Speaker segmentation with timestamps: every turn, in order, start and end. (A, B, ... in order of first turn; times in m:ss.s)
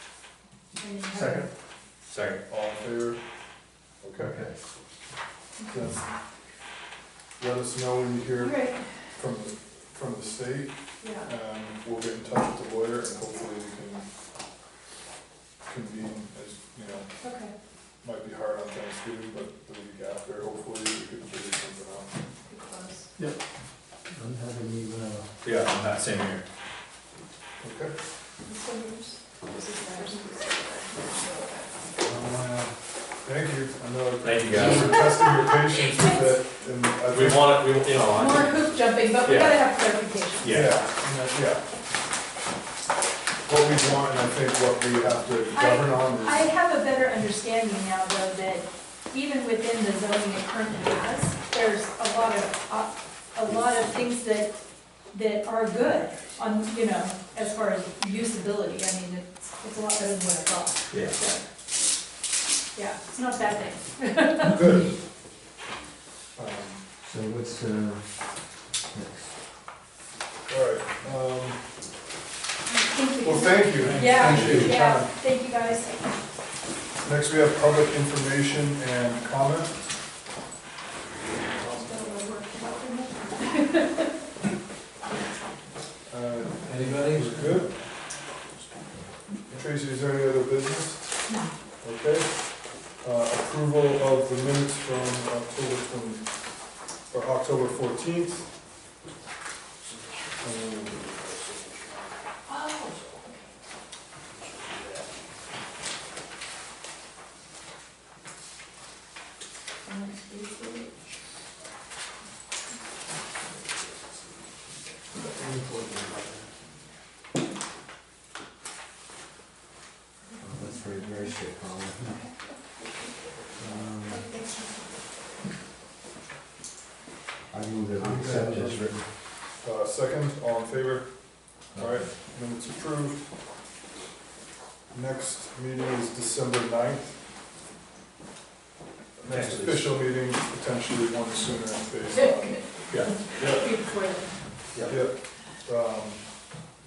0:00.8-0:01.5 A
0:01.1-0:01.5 B
0:02.1-0:02.4 C
0:02.5-0:03.2 D
0:04.0-0:04.4 D
0:04.2-0:04.6 B
0:05.6-0:06.1 A
0:05.7-0:06.1 D
0:07.4-0:14.1 D
0:08.4-0:09.0 A
0:11.0-0:11.3 A
0:15.6-0:17.1 D
0:17.2-0:17.5 A
0:18.0-0:22.2 D
0:22.5-0:23.1 A
0:23.2-0:23.4 B
0:24.1-0:25.3 B
0:25.4-0:26.4 C
0:27.6-0:27.9 D
0:28.4-0:31.7 A
0:32.0-0:37.7 D
0:34.2-0:35.0 C
0:34.7-0:36.4 A
0:37.1-0:39.6 C
0:38.1-0:40.6 A
0:40.4-0:40.8 C
0:40.5-0:41.6 D
0:43.4-0:46.5 D
0:45.5-0:54.6 A
0:55.1-1:01.4 A
1:00.9-1:01.2 C
1:02.7-1:04.6 A
1:04.4-1:04.9 D
1:06.4-1:06.8 D
1:07.0-1:09.4 B
1:10.5-1:11.6 D
1:12.7-1:16.2 A
1:13.2-1:15.1 D
1:13.9-1:14.8 C
1:17.0-1:19.8 D
1:21.5-1:24.1 A
1:26.1-1:27.7 D
1:26.7-1:27.8 C
1:29.5-1:38.5 D
1:31.3-1:31.5 A
1:39.8-1:42.1 C
1:40.4-1:41.1 D
1:42.5-1:43.5 A
1:44.3-1:45.2 C
1:49.8-1:50.9 A
1:55.3-1:56.2 B
2:00.3-2:01.3 A
2:00.4-2:02.2 B
2:02.0-2:04.8 A
2:03.6-2:04.3 B
2:07.5-2:09.1 B
2:08.0-2:08.9 D
2:09.5-2:13.2 D
2:14.9-2:17.2 D
2:19.2-2:22.6 D
2:19.3-2:20.0 C
2:22.1-2:24.3 A
2:22.9-2:23.6 C
2:23.4-2:23.6 D
2:24.7-2:25.0 C
2:24.8-2:26.4 D